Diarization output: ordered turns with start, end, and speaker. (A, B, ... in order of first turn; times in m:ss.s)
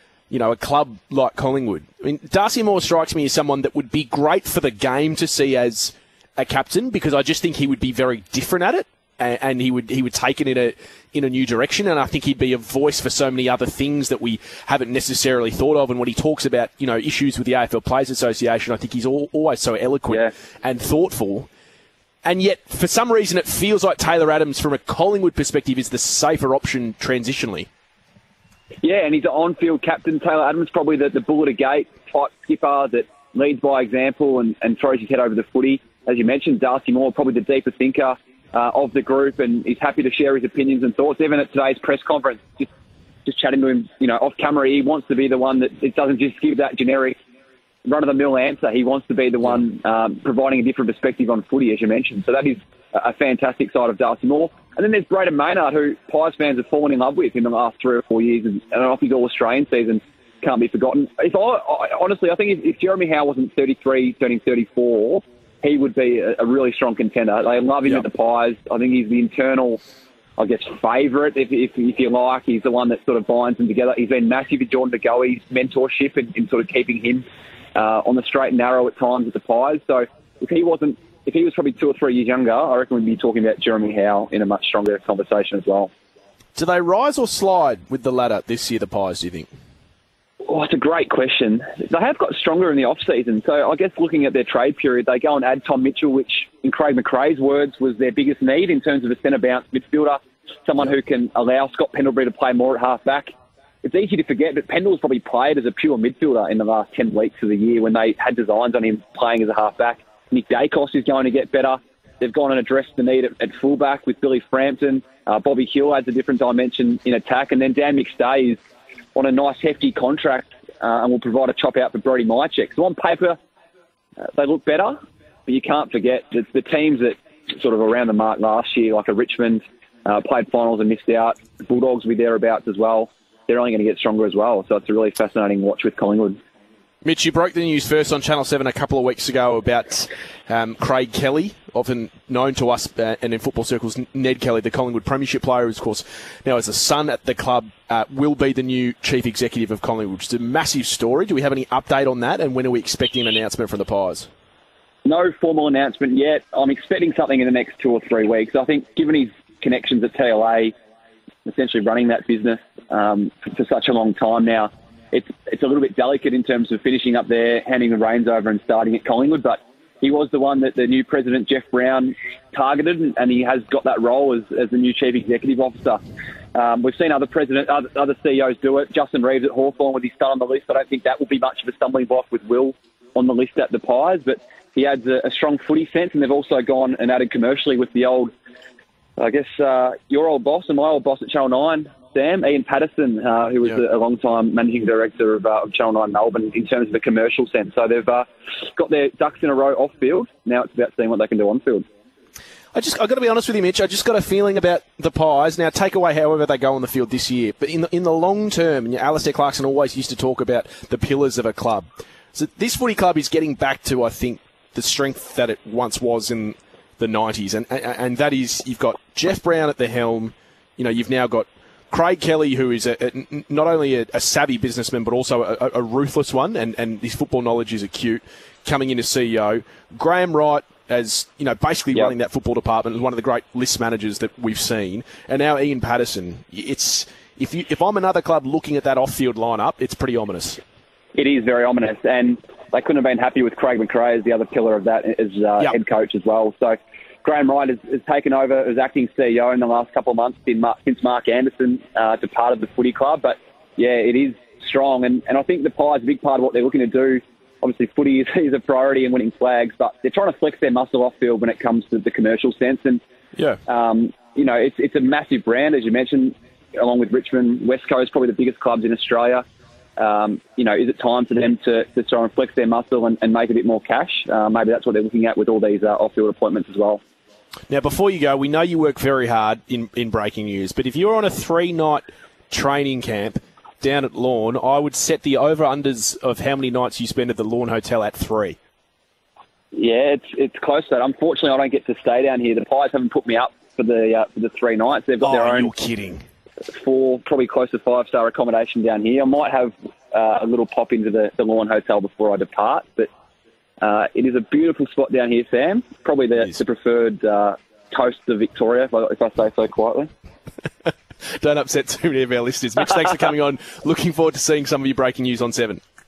0:00.3-0:21.5 A
0:22.2-0:27.7 A
0:28.8-0:42.7 B
0:43.3-0:47.2 B
0:47.9-1:09.8 B
1:10.4-1:17.2 B
1:17.8-1:25.9 B
1:26.6-1:29.5 A
1:30.5-1:58.6 B
1:59.2-2:03.4 B
2:04.2-2:16.4 B
2:17.0-2:34.3 A
2:35.0-2:40.7 B
2:41.4-2:56.0 B
2:56.5-3:08.3 B
3:09.2-3:21.9 B
3:22.7-4:00.6 A
4:01.2-4:23.0 B
4:23.7-4:29.4 B
4:30.0-4:37.0 B
4:37.7-4:48.6 A
4:49.7-4:55.7 B
4:55.2-4:56.2 A
4:56.7-5:03.1 B
5:03.8-5:10.1 B
5:10.8-5:15.8 A